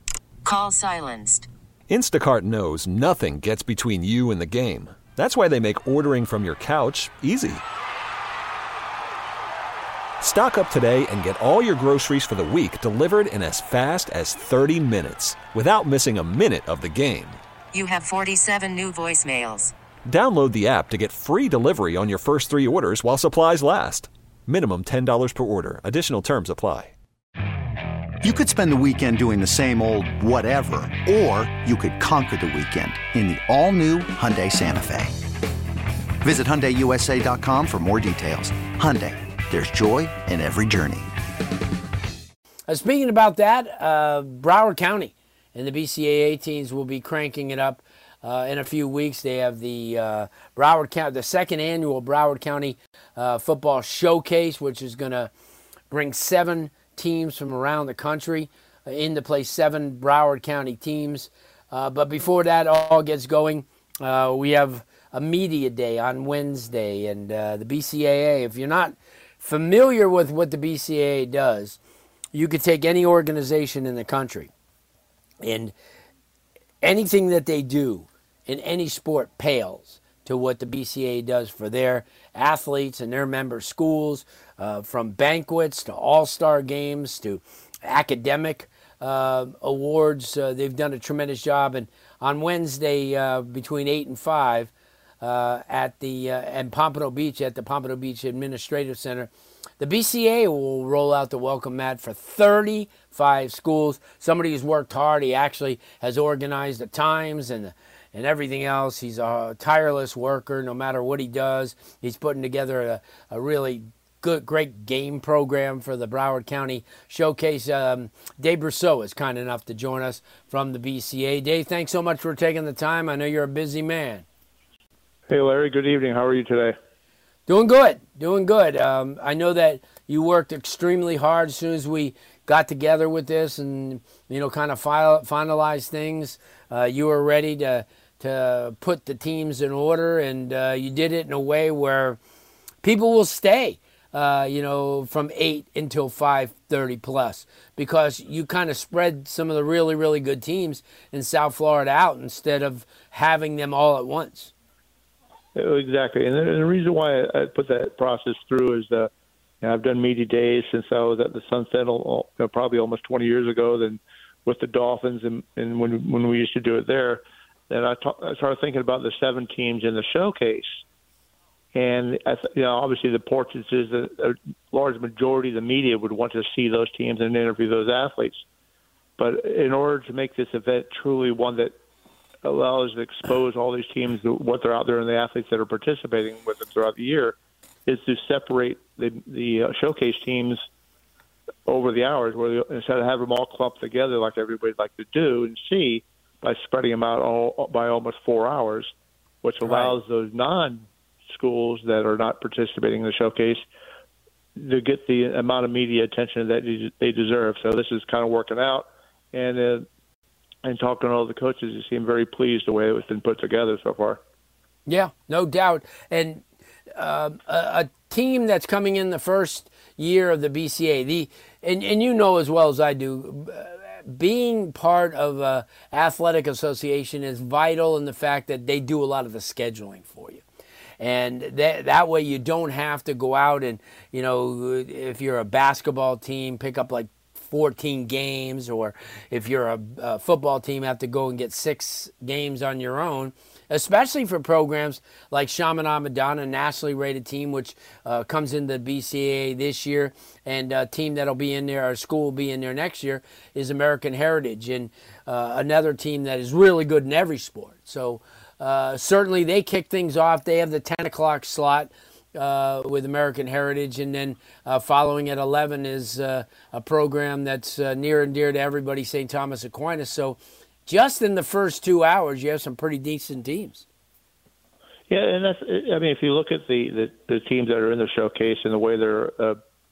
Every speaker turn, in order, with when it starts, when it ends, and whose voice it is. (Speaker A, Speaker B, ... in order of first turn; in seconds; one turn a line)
Speaker A: 0.5-1.4
Speaker B: 1.9-7.6
Speaker B: 10.2-17.4
Speaker A: 17.8-19.7
Speaker B: 20.1-26.9
Speaker C: 28.2-35.1
Speaker C: 36.2-41.1
Speaker D: 42.7-55.3
Speaker D: 55.9-71.8
Speaker D: 72.3-74.5
Speaker D: 75.4-75.7
Speaker D: 76.8-124.2
Speaker E: 125.3-126.7
Speaker D: 127.5-142.2
Speaker D: 142.8-154.5
Speaker E: 155.6-159.1
Speaker E: 159.6-170.8
Speaker E: 171.7-178.4
Speaker E: 179.2-181.7
Speaker E: 182.4-190.6
Speaker E: 191.7-198.9
Speaker E: 199.4-203.6
Speaker D: 199.6-199.9
Speaker E: 204.6-209.9
Speaker E: 210.6-214.2
Speaker D: 214.8-230.4
Speaker D: 231.0-273.9
Speaker E: 275.1-279.6